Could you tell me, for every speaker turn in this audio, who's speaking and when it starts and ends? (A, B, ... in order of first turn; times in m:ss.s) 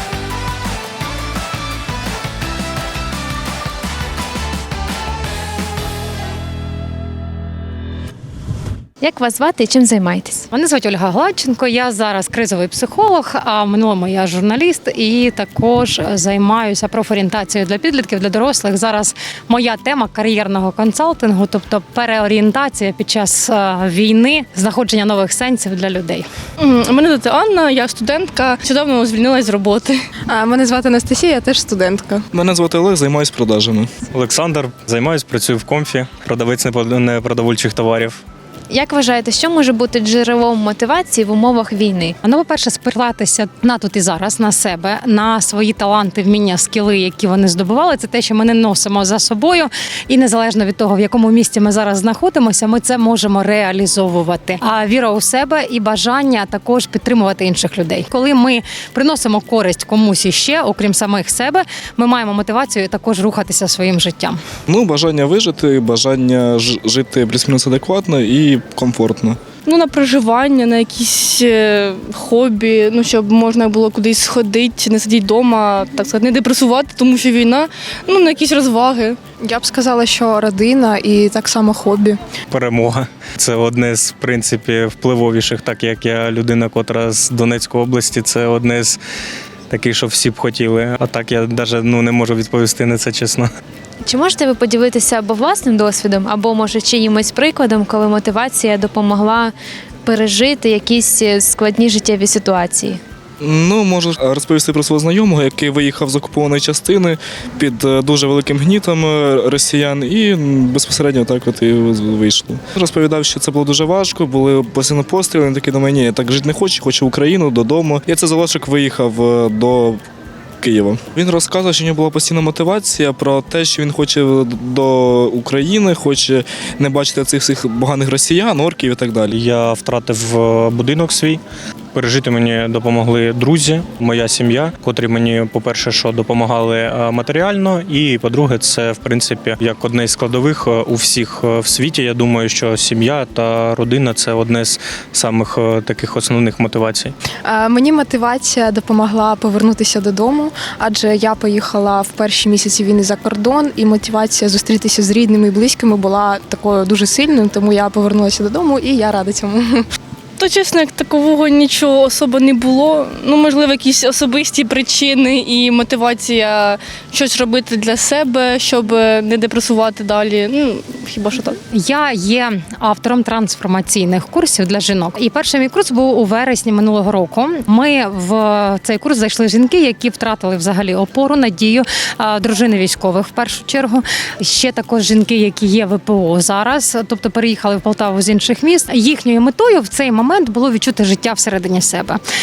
0:09.0-0:10.5 A
0:10.5-0:26.3 B
0:26.6-0:30.0 C
0:30.3-0:32.2 D
0:32.3-0:33.9 E
0:34.1-0:38.2 F
0:38.7-0:42.2 A
0:42.2-1:04.4 B
1:04.7-1:09.4 E
1:09.6-1:19.2 C
1:19.4-1:22.2 D
1:22.5-1:29.0 F
1:29.7-1:33.5 F
1:34.0-1:39.5 A
1:40.0-1:43.0 A
1:43.4-2:00.0 E
2:00.6-2:09.3 E
2:09.3-2:11.4 F
2:11.9-2:27.1 F
2:27.4-2:39.8 D
2:40.4-2:51.6 C
2:51.7-3:12.2 B